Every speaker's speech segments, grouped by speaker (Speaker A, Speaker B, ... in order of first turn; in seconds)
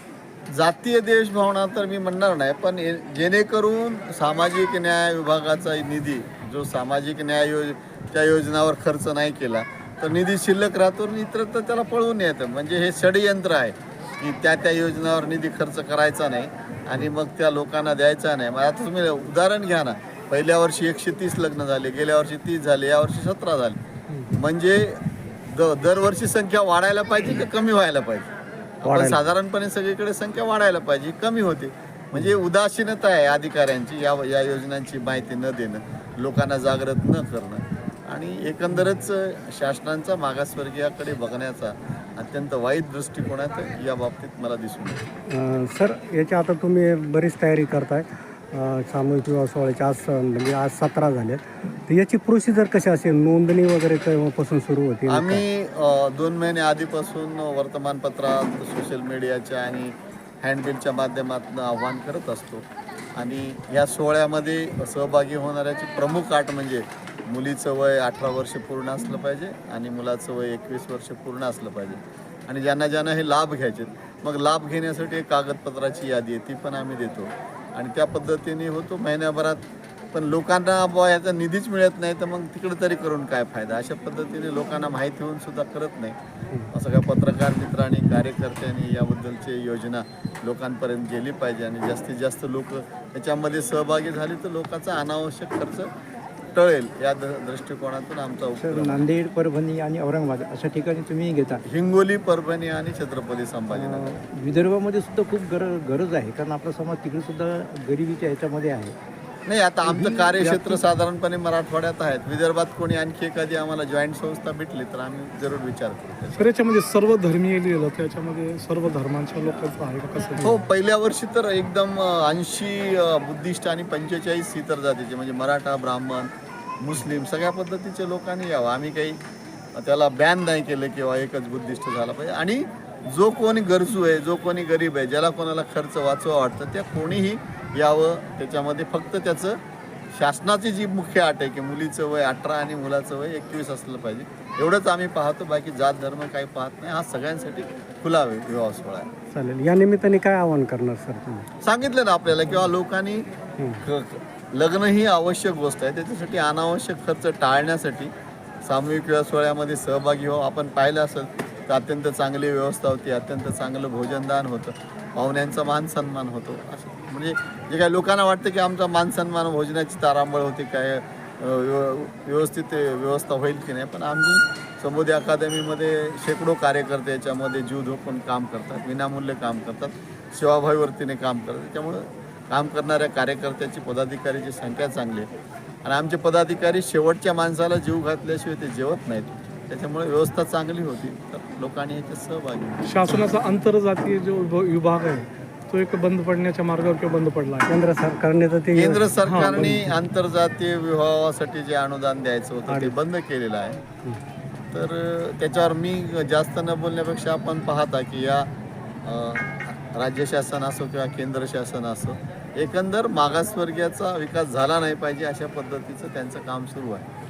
Speaker A: 0.5-23.8, 24.4-25.0, 25.5-28.3, 28.8-45.0, 55.1-62.6, 63.2-79.6, 80.1-86.2, 86.7-95.9, 96.5-99.1, 101.7-104.2, 109.5-116.5, 120.4-129.2, 129.8-139.6, 140.1-149.1, 151.6-153.3, 153.8-158.1, 158.6-185.3, 185.8-193.2, 198.7-203.8, 204.7-208.5, 209.1-217.1
Speaker B: 28.9-29.2, 38.7-39.0, 45.3-55.4, 149.3-151.5, 197.7-199.9, 202.7-202.9
Speaker C: 98.6-101.6, 103.7-109.0, 109.8-110.8
Speaker D: 116.4-120.7, 192.8-197.7, 199.2-199.8